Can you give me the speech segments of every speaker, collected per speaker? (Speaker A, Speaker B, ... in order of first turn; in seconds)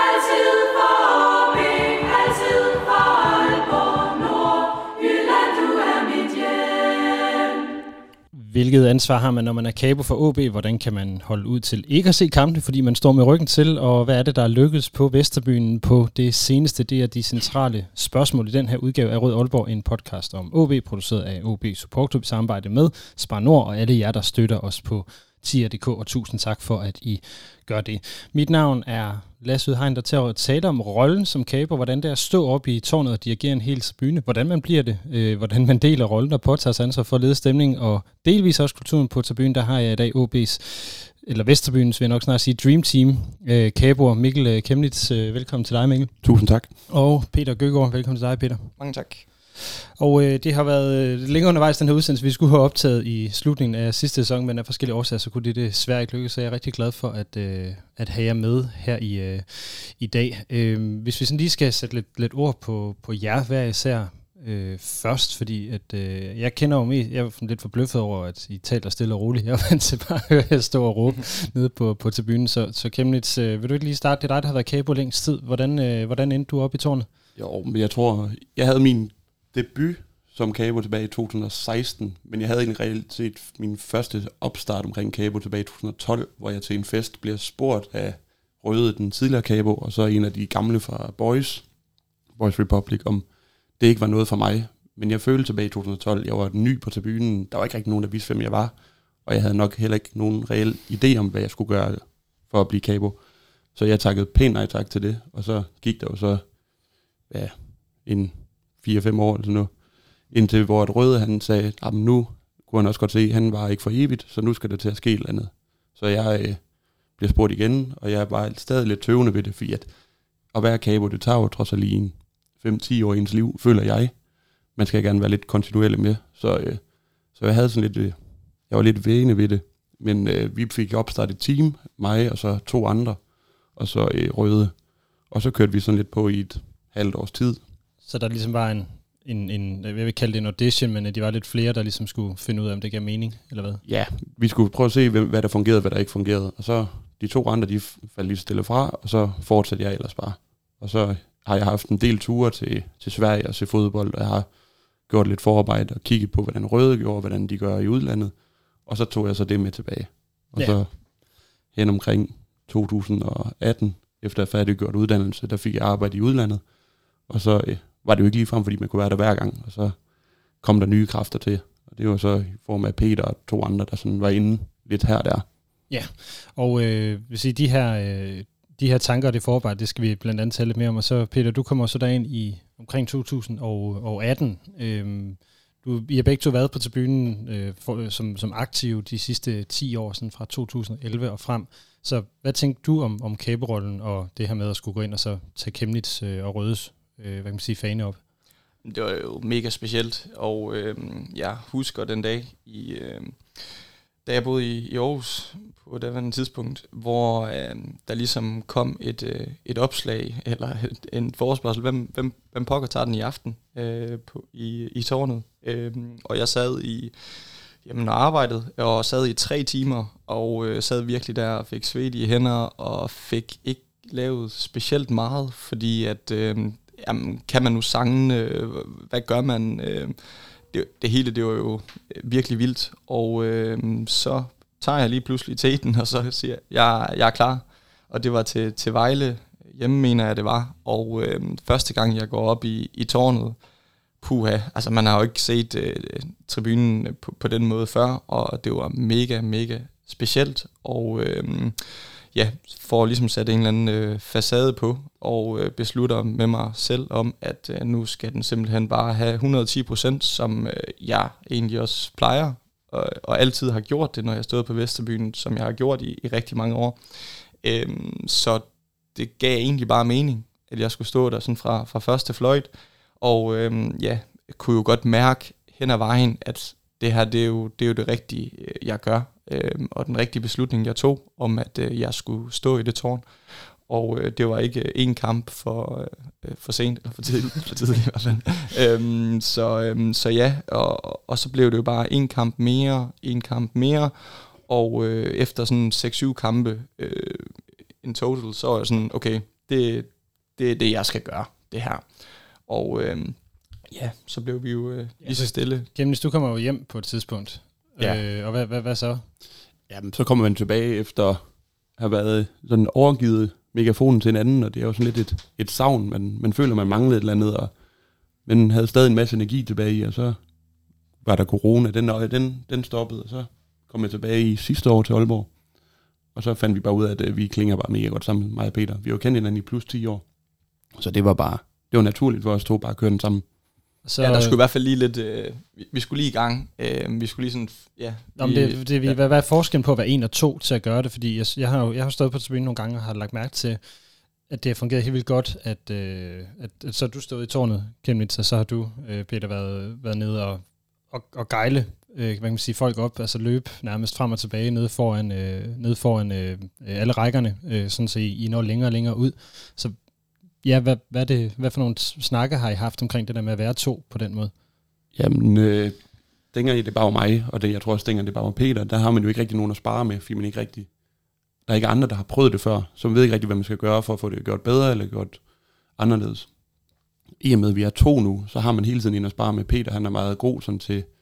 Speaker A: 8.3-46.2, 46.9-48.7, 50.0-77.1, 138.0-143.8, 175.9-198.2, 305.2-309.2, 334.0-334.5, 338.4-343.8, 344.5-359.9, 360.6-364.5
Speaker B: 46.2-46.7, 77.3-91.7, 92.4-93.3, 93.8-103.2, 103.7-106.6, 107.3-119.9, 120.5-124.2, 124.7-128.2, 128.7-133.2, 133.7-137.6, 143.8-154.5, 155.0-166.6, 167.2-170.0, 170.6-175.4, 309.9-317.7, 318.4-320.4, 321.2-325.6, 326.3-330.3, 330.9-333.4, 365.1-366.0, 366.5-370.9, 371.7-375.4, 375.9-376.5, 377.4-381.1
Speaker C: 48.8-49.2, 198.8-243.6, 244.2-305.9, 334.2-339.2